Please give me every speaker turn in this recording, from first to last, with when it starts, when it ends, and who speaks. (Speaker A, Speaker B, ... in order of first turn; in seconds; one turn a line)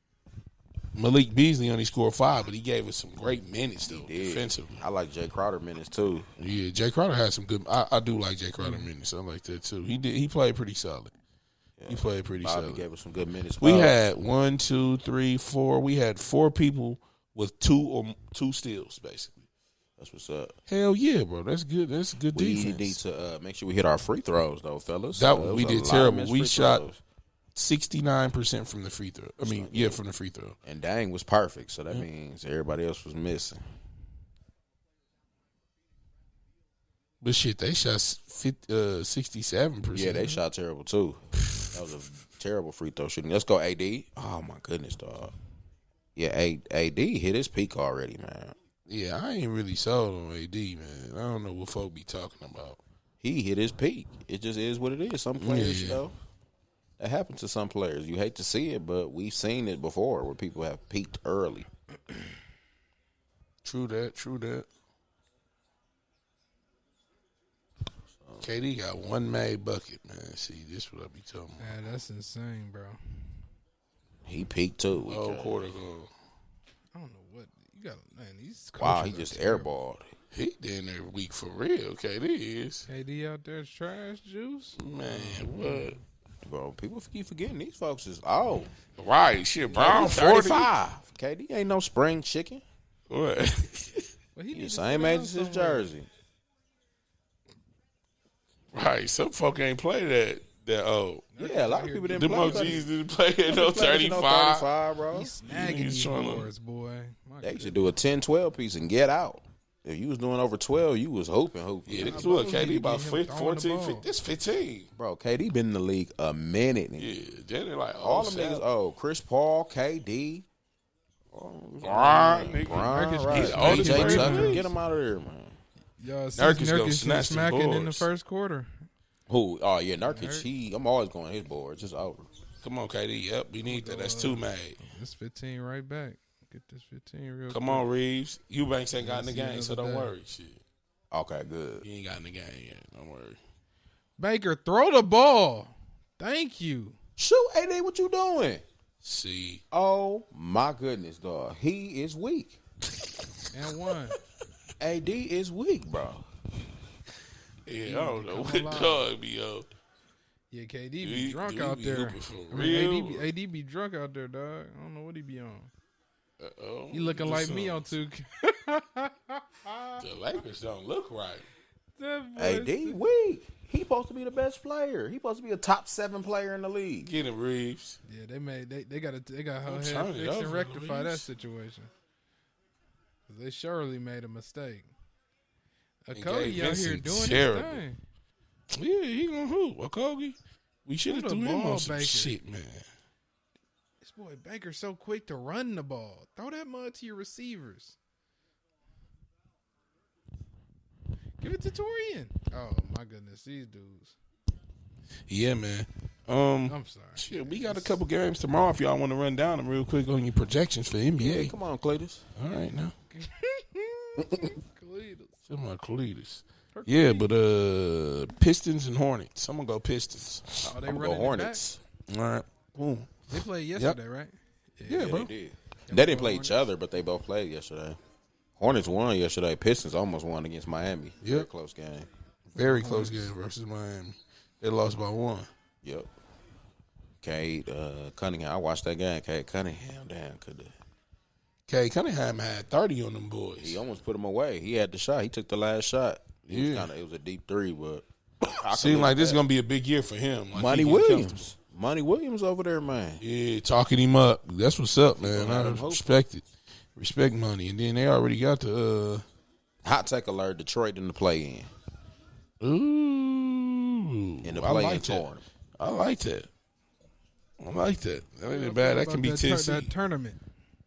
Speaker A: 0.9-4.8
Speaker B: 3.9-6.3
Speaker A: 6.4-11.1
Speaker C: 8.6-8.9
Speaker B: 11.8-14.0
Speaker A: 11.9-12.8
Speaker A: 13.6-19.4
Speaker B: 20.0-20.6
Speaker A: 20.7-23.0
Speaker B: 22.3-27.0
Speaker A: 25.2-26.8
Speaker A: 27.6-30.6
Speaker B: 29.4-30.0
Speaker B: 30.6-33.6
Speaker A: 37.2-40.4
Speaker B: 39.9-45.4
Speaker B: 46.2-48.6
Speaker A: 48.9-52.8
Speaker B: 53.2-56.1
Speaker A: 55.4-56.0
Speaker B: 57.0-61.7
Speaker A: 63.6-64.7
Speaker B: 68.2-68.5
Speaker A: 68.4-71.6
Speaker C: 71.6-73.2
Speaker B: 74.2-75.7
Speaker A: 75.1-76.1
Speaker C: 76.9-79.7
Speaker B: 78.8-80.1
Speaker A: 80.3-82.9
Speaker C: 82.9-86.0
Speaker A: 84.8-86.0
Speaker B: 86.4-88.7
Speaker A: 89.0-90.7
Speaker B: 89.8-92.6
Speaker A: 93.1-94.1
Speaker C: 94.3-95.9
Speaker B: 94.5-96.1
Speaker A: 98.7-101.3
Speaker C: 101.3-102.8
Speaker B: 101.4-102.8
Speaker A: 102.1-104.7
Speaker B: 103.5-105.3
Speaker C: 105.1-107.9
Speaker A: 105.4-106.5
Speaker B: 107.4-112.4
Speaker A: 111.9-114.9
Speaker C: 112.0-114.1
Speaker B: 115.0-117.1
Speaker A: 117.0-118.7
Speaker B: 118.0-120.5
Speaker B: 121.3-125.6
Speaker A: 121.8-124.7
Speaker C: 122.9-124.6
Speaker C: 126.0-128.9
Speaker A: 126.4-128.1
Speaker B: 129.3-132.3
Speaker C: 130.1-130.5
Speaker A: 132.6-134.8
Speaker C: 133.7-137.9
Speaker A: 137.5-140.6
Speaker C: 139.0-140.1
Speaker B: 141.1-141.9
Speaker A: 141.8-143.4
Speaker C: 144.2-147.0
Speaker B: 147.2-148.6
Speaker A: 149.0-149.6
Speaker B: 149.7-152.6
Speaker C: 153.5-154.2
Speaker B: 154.8-156.3
Speaker A: 157.7-159.7
Speaker C: 157.8-159.1
Speaker C: 160.5-165.7
Speaker A: 161.0-163.3
Speaker A: 166.4-167.9
Speaker C: 166.9-170.0
Speaker A: 170.0-171.5
Speaker C: 172.0-173.0
Speaker B: 172.4-177.1
Speaker A: 177.0-178.0
Speaker C: 178.1-181.9
Speaker A: 179.7-181.3
Speaker C: 183.3-184.9
Speaker C: 186.1-188.0
Speaker A: 186.1-187.8
Speaker A: 188.7-192.8
Speaker C: 191.1-192.4
Speaker C: 194.0-198.0
Speaker C: 201.4-204.2
Speaker A: 205.3-211.5
Speaker C: 206.7-208.0
Speaker B: 211.2-212.2
Speaker A: 212.4-212.9
Speaker C: 213.1-215.4
Speaker A: 215.5-220.7
Speaker C: 216.7-217.3
Speaker C: 220.7-221.6
Speaker B: 220.7-221.8
Speaker A: 222.1-224.0
Speaker C: 223.3-225.2
Speaker A: 224.9-225.3
Speaker B: 224.9-228.0
Speaker C: 225.9-226.6
Speaker B: 228.6-232.1
Speaker A: 231.2-231.5
Speaker A: 232.6-235.5
Speaker C: 232.6-233.3
Speaker B: 235.8-236.1
Speaker B: 237.2-240.8
Speaker A: 241.7-243.8
Speaker B: 243.6-249.4
Speaker A: 246.5-246.9
Speaker A: 248.7-251.5
Speaker B: 250.5-253.2
Speaker A: 253.2-256.4
Speaker B: 255.2-256.1
Speaker A: 257.0-259.2
Speaker B: 259.8-261.7
Speaker A: 262.6-265.3
Speaker B: 264.4-265.4
Speaker A: 265.8-266.5
Speaker A: 267.6-269.9
Speaker C: 268.5-270.4